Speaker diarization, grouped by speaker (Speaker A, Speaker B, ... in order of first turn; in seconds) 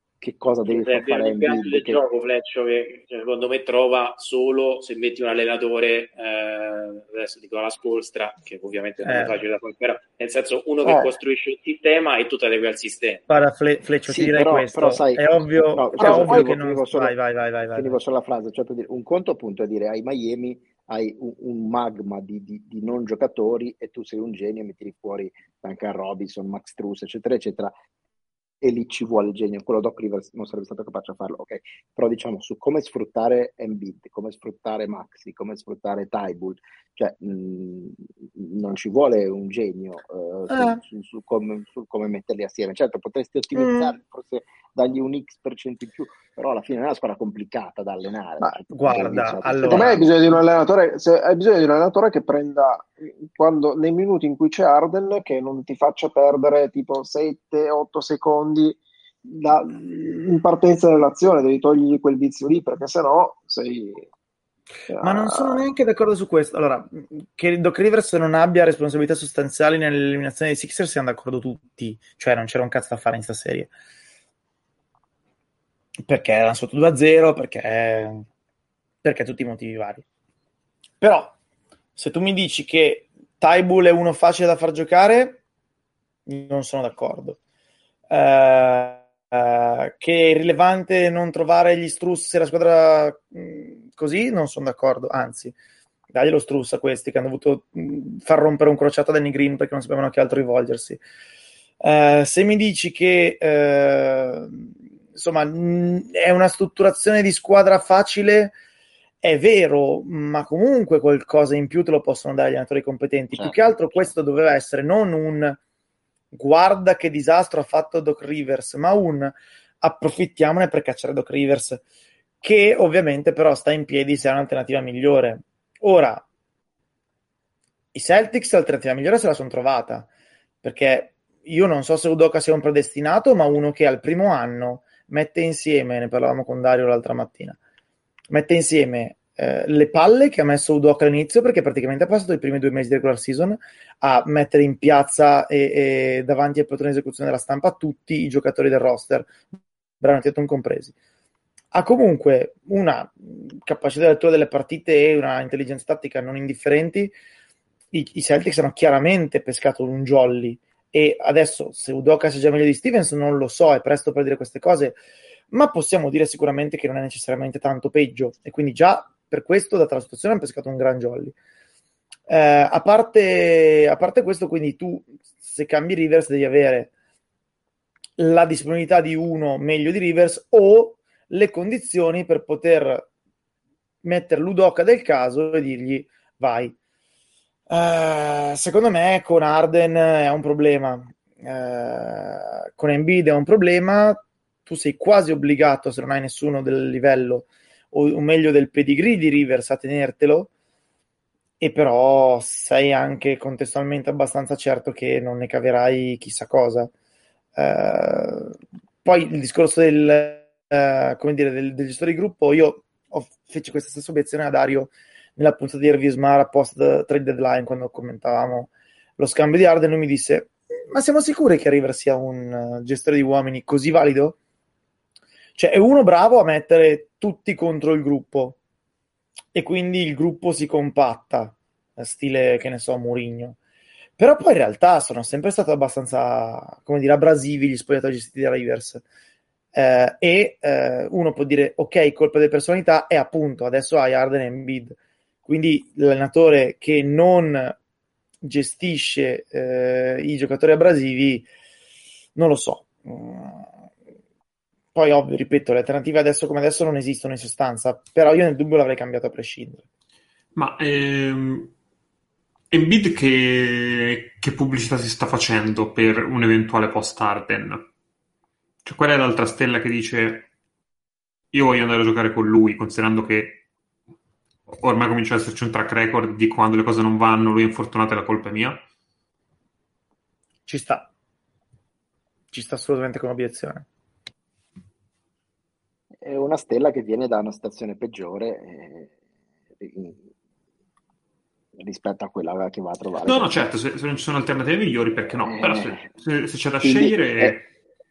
Speaker A: 0.2-2.0, 14.1-17.1, 17.7-27.7, 28.6-50.1, 113.3-114.0, 286.2-289.1, 289.7-290.3, 291.7-293.6, 295.4-296.1, 296.8-297.6
Speaker B: 0.7-13.2
Speaker C: 9.0-9.3, 13.3-18.0, 40.5-40.8, 43.5-43.9, 48.7-50.0, 65.0-73.7, 76.0-78.2, 79.0-80.0, 81.0-81.3, 82.0-85.4, 86.2-87.4, 88.1-95.5, 96.1-101.0, 101.8-108.5, 109.2-115.6, 116.3-121.8, 122.4-126.2, 127.9-130.1, 130.6-137.6, 138.3-149.5, 150.0-150.9, 151.7-157.1, 157.9-165.0, 165.5-171.3, 172.3-176.9, 178.2-183.1, 184.0-186.7, 187.7-200.5, 201.6-206.9, 207.6-224.4, 225.6-228.6, 229.5-233.6, 234.2-239.0, 239.7-247.8, 248.4-251.4, 252.3-253.7, 254.9-259.8, 280.6-281.1, 282.5-283.9
Speaker D: 10.8-11.1, 16.0-16.5, 49.6-64.0, 64.9-65.6
Speaker E: 260.5-261.7, 262.7-267.9, 268.8-270.5, 271.5-273.6, 274.7-278.8, 293.2-297.7